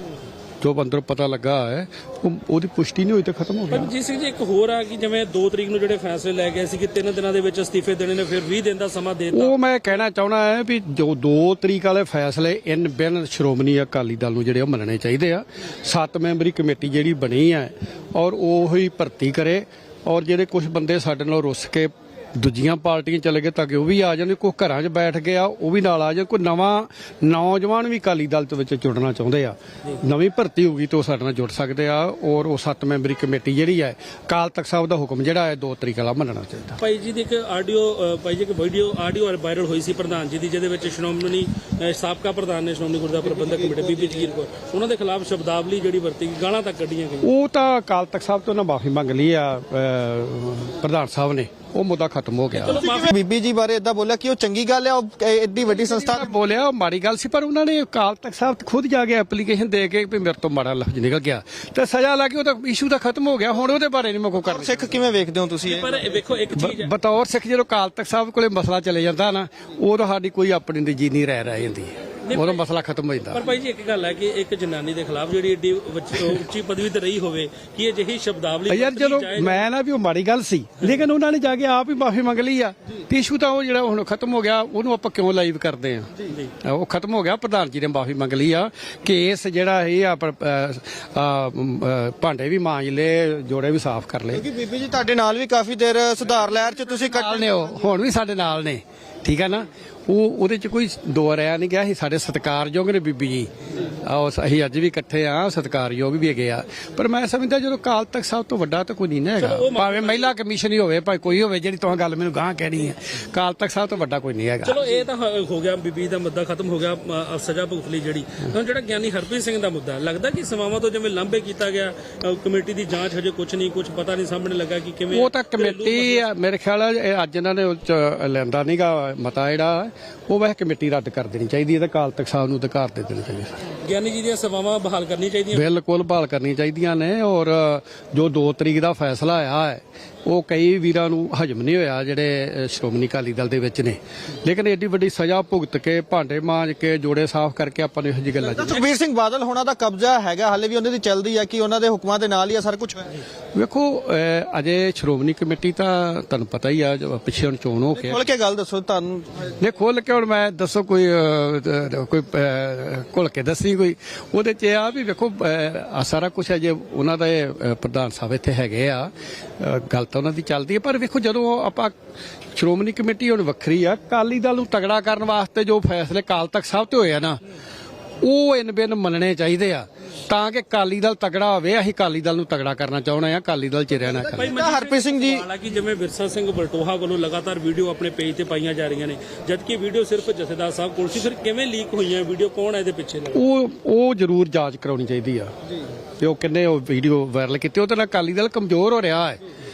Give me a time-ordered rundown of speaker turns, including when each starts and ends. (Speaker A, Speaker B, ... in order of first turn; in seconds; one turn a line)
Speaker A: 0.6-3.9
Speaker B: 3.7-9.6
Speaker A: 9.3-36.8
Speaker B: 36.8-47.3
Speaker A: 47.2-52.8
Speaker B: 52.6-53.1
Speaker C: 52.7-56.3
Speaker A: 55.8-65.0
Speaker C: 64.4-65.9
Speaker B: 65.7-66.9
Speaker A: 66.5-73.4
Speaker B: 72.3-72.6
Speaker B: 73.3-79.7
Speaker A: 78.7-94.5
Speaker C: 94.3-97.6
Speaker A: 97.0-114.9
Speaker B: 109.4-110.3
Speaker B: 114.6-126.3
Speaker A: 125.1-133.7
Speaker B: 133.8-135.7
Speaker A: 135.5-148.8
Speaker C: 148.5-153.2
Speaker A: 153.5-158.2
Speaker C: 157.9-159.5
Speaker A: 159.6-172.0
Speaker A: 172.5-177.4
Speaker A: 178.2-184.6
Speaker B: 184.3-193.5
Speaker C: 184.4-185.5
Speaker A: 193.3-195.5
Speaker A: 196.2-199.4